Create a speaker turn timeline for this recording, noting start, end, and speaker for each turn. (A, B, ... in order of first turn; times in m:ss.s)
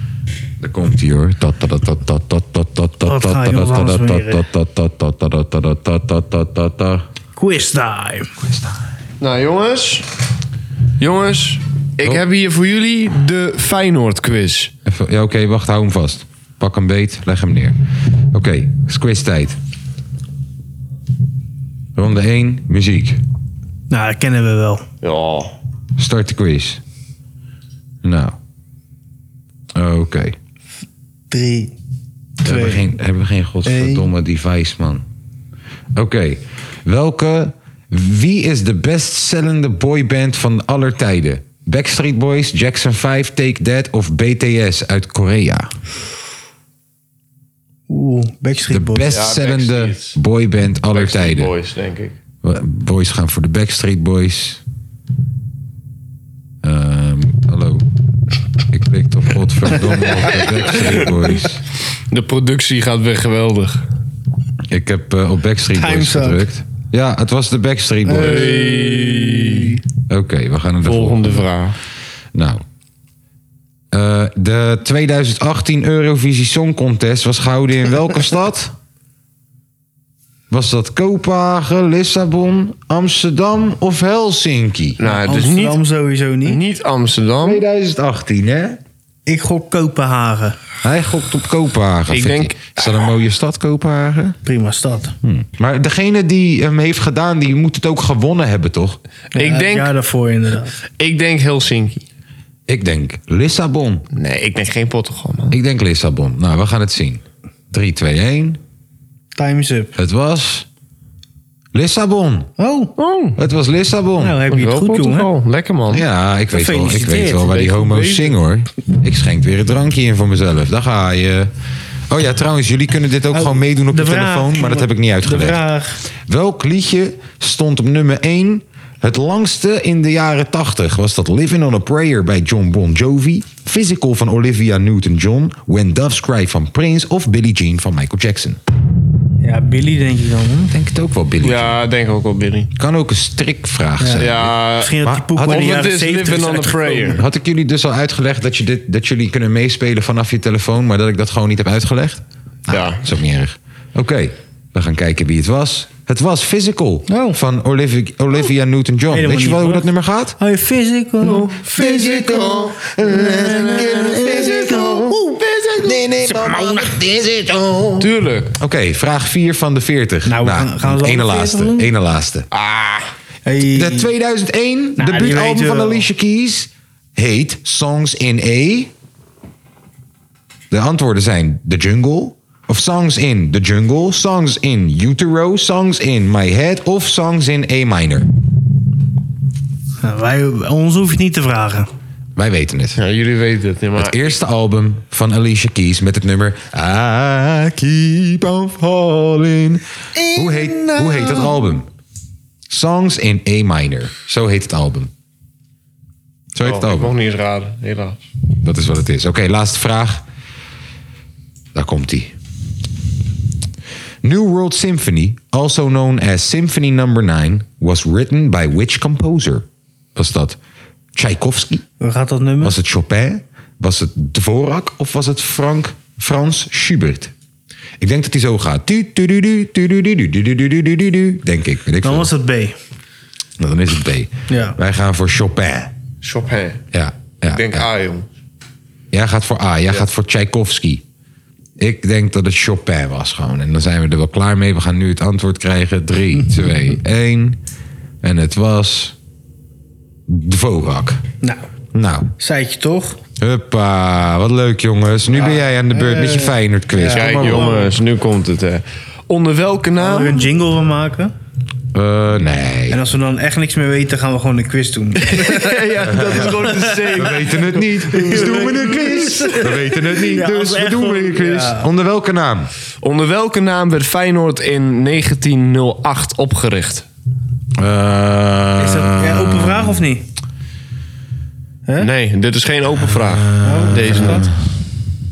0:00.6-0:07.1 A
0:03.0-0:04.4 B
0:07.4-0:08.3 B
0:08.4-0:08.8 A
0:09.2-0:10.1 C
0:11.0-0:14.7 C
0:14.8-0:17.8 A
0:18.3-0:19.6 A
0:21.9-0:23.2 A
0:23.9-0:24.8 B
0:25.0-0:25.5 C
0:26.0-0:26.8 A
0:28.0-0:28.4 A
0:29.7-0:30.4 A
0:31.3-0:31.7 B
0:32.4-0:32.9 B
0:32.4-0:35.0 A
0:33.6-0:34.1 B
0:35.9-0:45.7 A
0:47.9-0:49.1 B
0:48.7-0:51.5 A
0:49.1-0:50.2 C
0:50.9-0:52.2 C
0:52.4-0:54.6 A
0:56.6-0:57.8 A
0:58.7-1:01.6 A
1:00.8-1:01.2 C
1:02.1-1:03.8 C
1:04.7-1:08.6 A
1:05.7-1:06.4 B
1:08.0-1:09.8 B
1:08.2-1:09.7 C
1:10.1-1:11.4 A
1:10.8-1:11.8 C
1:12.3-1:12.6 A
1:13.9-1:18.7 A
1:20.5-1:25.0 A
1:25.0-1:25.8 C
1:25.0-1:26.6 B
1:26.4-1:27.6 C
1:27.4-1:28.8 A
1:29.2-1:30.6 B
1:30.8-1:34.4 A
1:32.1-1:32.7 C
1:34.4-1:35.1 B
1:35.2-1:39.0 A
1:39.3-1:40.7 B
1:39.4-1:39.9 C
1:41.0-1:42.0 C
1:42.7-1:44.0 A
1:44.1-1:45.6 C
1:45.5-1:48.6 A
1:49.4-1:49.9 B
1:50.0-1:50.7 A
1:51.7-1:52.5 A
1:52.6-1:52.9 B
1:53.0-1:53.4 C
1:53.4-1:54.4 A
1:54.2-1:55.3 B
1:54.5-1:56.0 C
1:55.9-2:01.5 A
1:56.5-1:57.5 B
1:57.4-1:58.3 C
2:02.1-2:05.6 A
2:03.3-2:06.0 B
2:06.2-2:18.6 A
2:19.4-2:20.7 B
2:20.7-2:21.8 A
2:21.4-2:22.7 C
2:22.8-2:25.6 A
2:24.0-2:27.2 B
2:24.2-2:27.2 C
2:27.1-2:40.4 A
2:32.7-2:33.0 C
2:37.1-2:37.4 B
2:39.1-2:42.5 B
2:41.2-2:46.0 C
2:41.7-2:45.2 A
2:43.2-2:45.4 B
2:45.8-2:52.5 A
2:46.4-2:46.7 B
2:48.0-2:48.6 C
2:50.2-2:51.9 B
2:52.5-2:53.1 C
2:53.4-2:54.1 B
2:53.7-2:58.9 A
2:55.0-2:56.1 B
3:00.7-3:08.3 A
3:10.0-3:11.9 B
3:12.4-3:13.0 A
3:13.0-3:14.3 C
3:14.0-3:19.8 A
3:20.1-3:21.6 B
3:20.3-3:21.9 A
3:22.7-3:25.1 A
3:26.5-3:27.1 A
3:26.6-3:28.2 C
3:28.6-3:30.2 A
3:31.7-3:32.3 A
3:34.2-3:40.6 A
3:41.1-3:41.8 A
3:42.0-3:42.8 B
3:42.6-3:47.3 A
3:48.0-3:52.3 A
3:52.0-3:52.8 B
3:53.6-3:55.9 A
3:54.5-3:54.8 B
3:56.2-3:56.8 C
3:56.9-3:57.9 A
3:57.4-3:58.3 C
3:59.1-4:01.0 A
4:01.8-4:07.6 A
4:08.2-4:09.2 A
4:10.3-4:11.2 A
4:11.9-4:12.3 A
4:12.4-4:13.2 B
4:13.4-4:17.8 A
4:15.3-4:17.9 B
4:17.1-4:20.5 C
4:20.0-4:21.3 B
4:21.9-4:23.0 A
4:22.9-4:27.1 B
4:25.2-4:28.8 C
4:26.1-4:26.6 A
4:27.1-4:32.7 A
4:28.1-4:31.8 B
4:33.0-4:37.0 C
4:37.8-4:40.0 A
4:38.8-4:40.2 B
4:42.0-4:44.4 C
4:43.1-4:44.5 A
4:43.6-4:44.5 B